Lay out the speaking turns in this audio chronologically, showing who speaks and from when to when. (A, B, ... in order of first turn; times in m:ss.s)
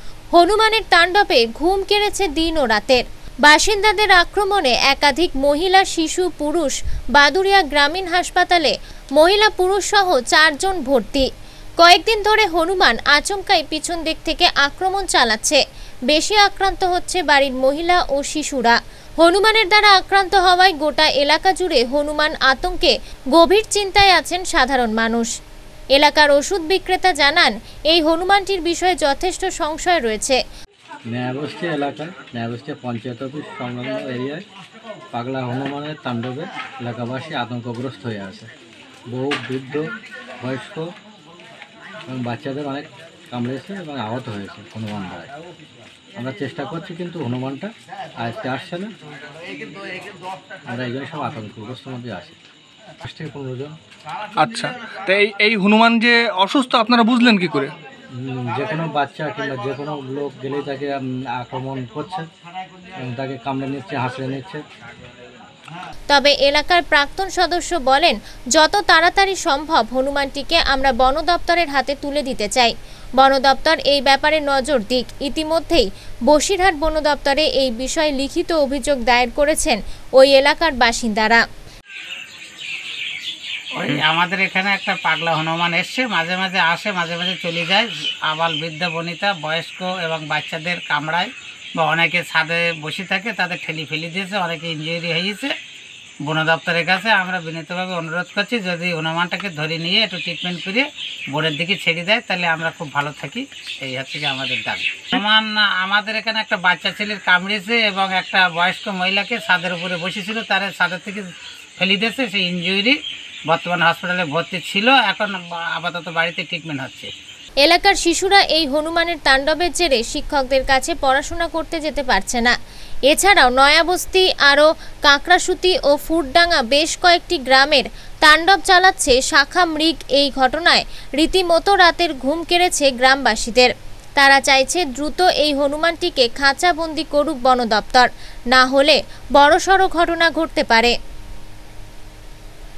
0:00.4-0:11.3 A
0:11.8-0:25.3 A
0:26.0-0:30.4 A
0:31.1-0:34.4 B
0:35.1-0:38.5 B
0:39.1-0:39.9 B
0:40.4-0:40.9 B
0:42.1-0:45.3 B
0:46.2-0:48.9 B
0:50.7-0:52.4 B
0:53.0-0:53.8 B
0:54.4-0:57.7 C
0:58.1-1:02.3 B
1:03.0-1:04.6 B
1:06.1-1:21.4 A
1:23.8-1:35.5 D
1:36.2-1:51.3 D
1:51.8-1:53.0 D
1:53.5-1:57.1 D
1:57.6-2:02.6 A
2:03.1-2:21.0 A